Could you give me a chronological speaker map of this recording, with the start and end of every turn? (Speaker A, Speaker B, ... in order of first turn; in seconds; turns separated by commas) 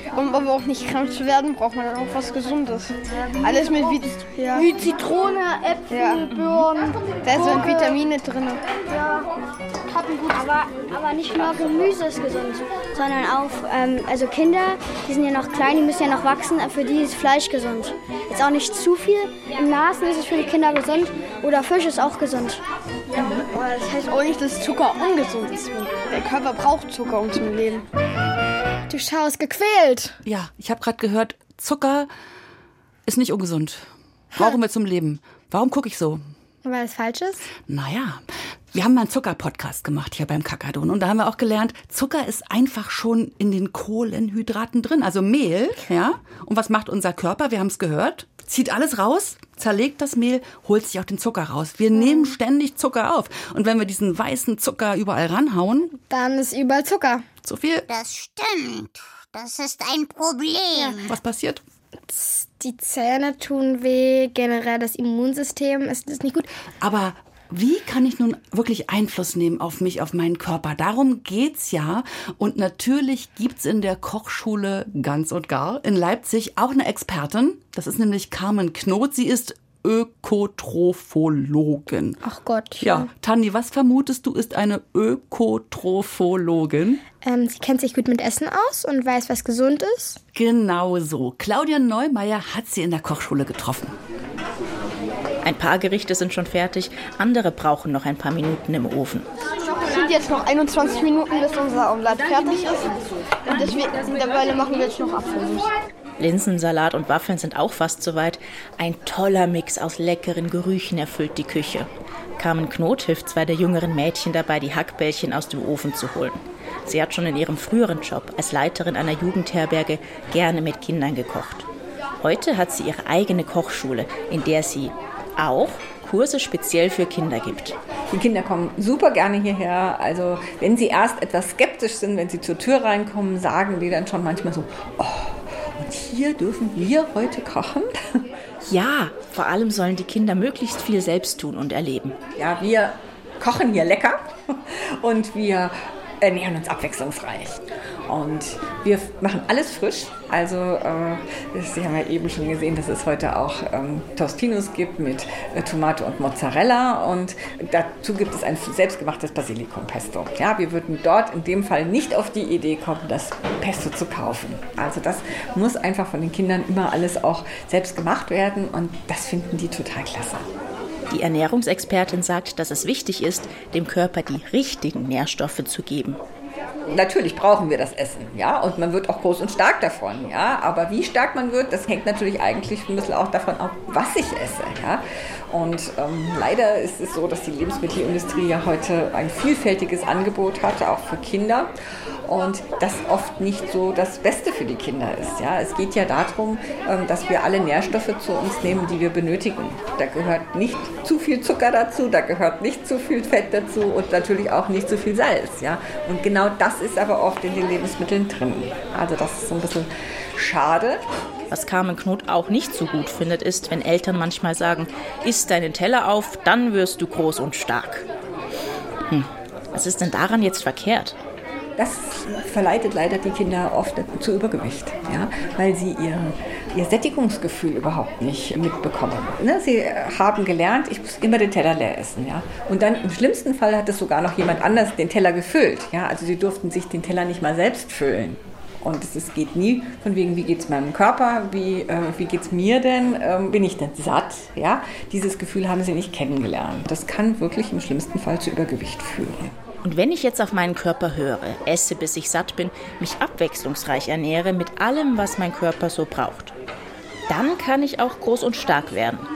Speaker A: 0.1-4.7, Speaker B: 4.5-7.9, Speaker A: 5.9-6.4, Speaker A: 7.2-8.6, Speaker B: 9.9-22.6, Speaker A: 23.7-27.9, Speaker C: 28.9-30.2, Speaker D: 30.2-32.1, Speaker D: 33.1-36.2, Speaker C: 36.6-37.5, Speaker D: 37.7-38.2, Speaker D: 38.7-55.9, Speaker C: 52.0-52.4, Speaker C: 56.0-57.2, Speaker D: 57.5-57.9, Speaker E: 57.9-61.1, Speaker D: 61.1-61.6, Speaker C: 62.1-66.5, Speaker D: 66.8-82.2, Speaker C: 82.2-83.1, Speaker D: 82.8-87.0, Speaker C: 87.2-90.2, Speaker D: 90.3-93.9, Speaker F: 95.4-99.3, Speaker A: 99.8-105.7, Speaker F: 106.2-121.7, Speaker F: 122.2-127.8, Speaker G: 128.1-138.2, Speaker F: 138.7-142.2, Speaker G: 142.4-170.5, Speaker F: 171.1-176.2, Speaker G: 176.9-191.7, Speaker G: 192.2-211.0, Speaker F: 211.5-218.1, Speaker F: 219.1-221.2, Speaker G: 221.8-249.5, Speaker F: 249.8-256.5, Speaker F: 257.3-259.3